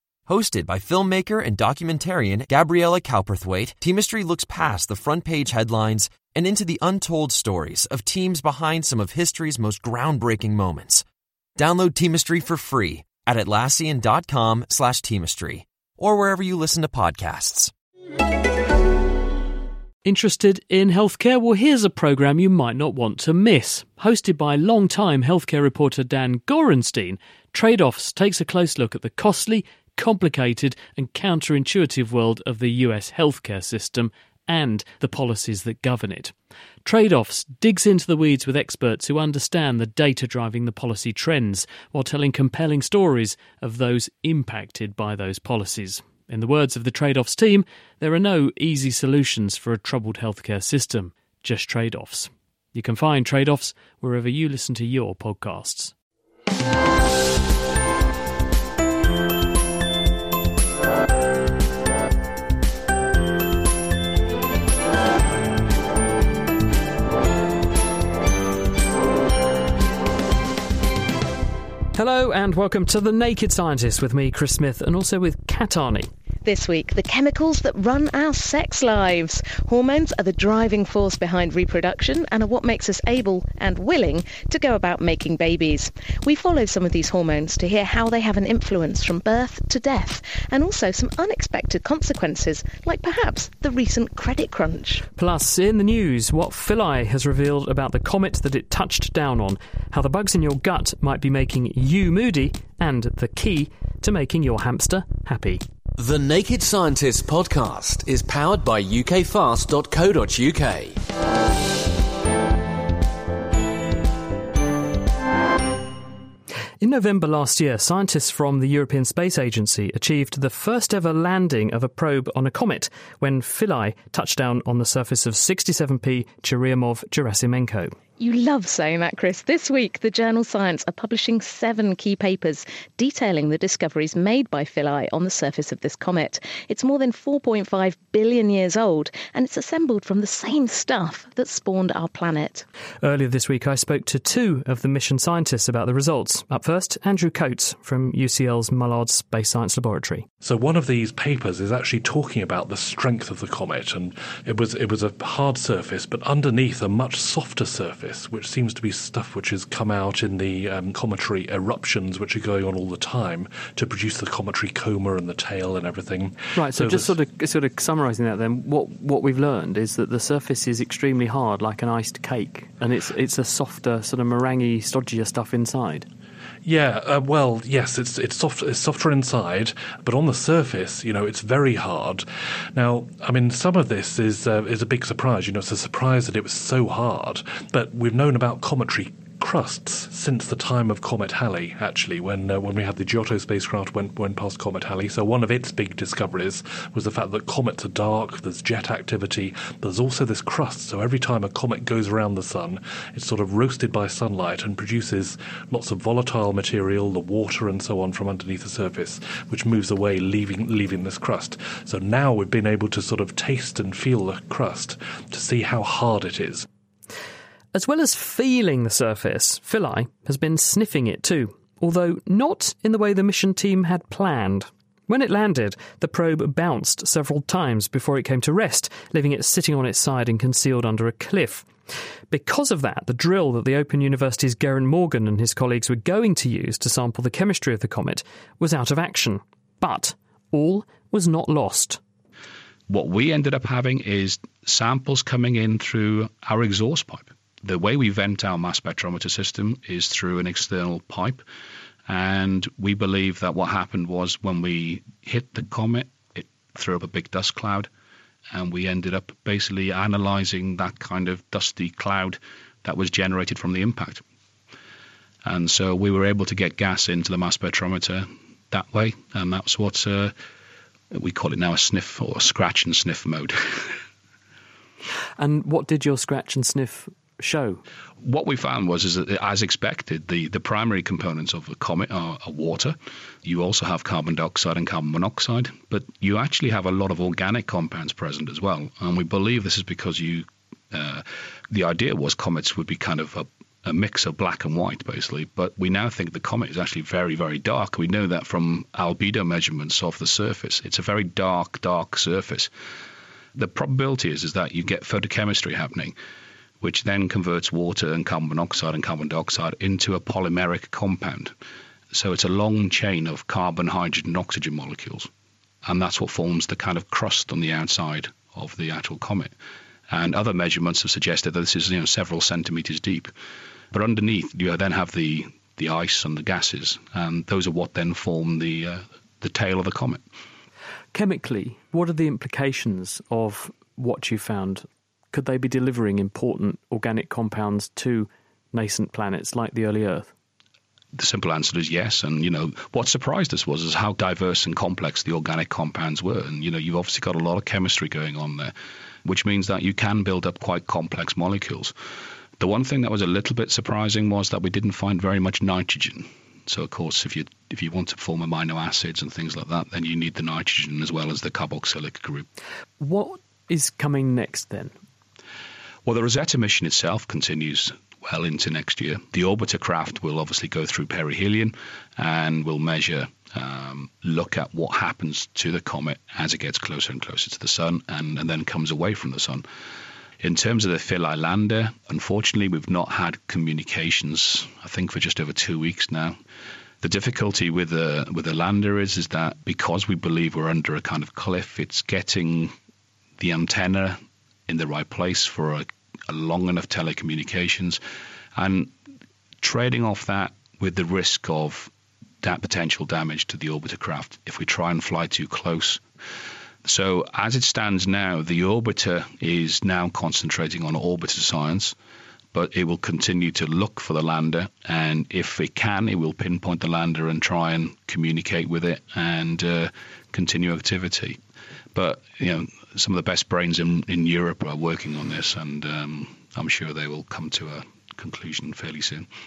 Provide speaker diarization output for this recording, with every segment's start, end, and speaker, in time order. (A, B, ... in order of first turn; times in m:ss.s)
0:00.3-0:11.0 A
0:11.6-0:17.7 A
0:20.0-0:36.3 B
0:36.8-0:55.9 B
1:11.9-1:16.1 B
1:16.4-1:35.0 C
1:35.2-1:45.6 B
1:46.0-1:51.0 D
1:56.8-2:08.0 B
2:08.2-2:22.6 C
2:23.0-2:30.2 B
2:30.4-2:47.1 E
2:46.6-2:56.1 B
2:56.6-3:36.7 E
3:37.7-3:51.7 B
3:52.3-4:02.0 B
4:02.9-4:11.4 F
4:12.1-4:17.9 F
4:18.5-4:24.2 F
4:25.4-4:30.3 F
4:31.1-4:34.0 F
4:35.4-4:37.8 B
4:38.2-5:02.7 F
5:03.6-5:06.1 F
5:06.8-5:11.5 F
5:12.1-5:15.3 F
5:15.8-5:19.5 F
5:20.1-5:23.3 F
5:23.9-5:30.2 F
5:31.1-5:40.3 B
5:41.1-5:48.7 F
5:49.2-5:51.9 F
5:52.6-6:02.5 F
6:03.0-6:04.9 B
6:06.0-6:19.6 F
6:20.4-6:26.4 F
6:27.0-6:32.7 F
6:33.4-6:38.0 F
6:38.6-6:38.9 F
6:39.6-6:41.9 F
6:42.4-6:46.0 F
6:46.8-6:51.9 F
6:52.5-7:01.4 F
7:01.9-7:09.3 F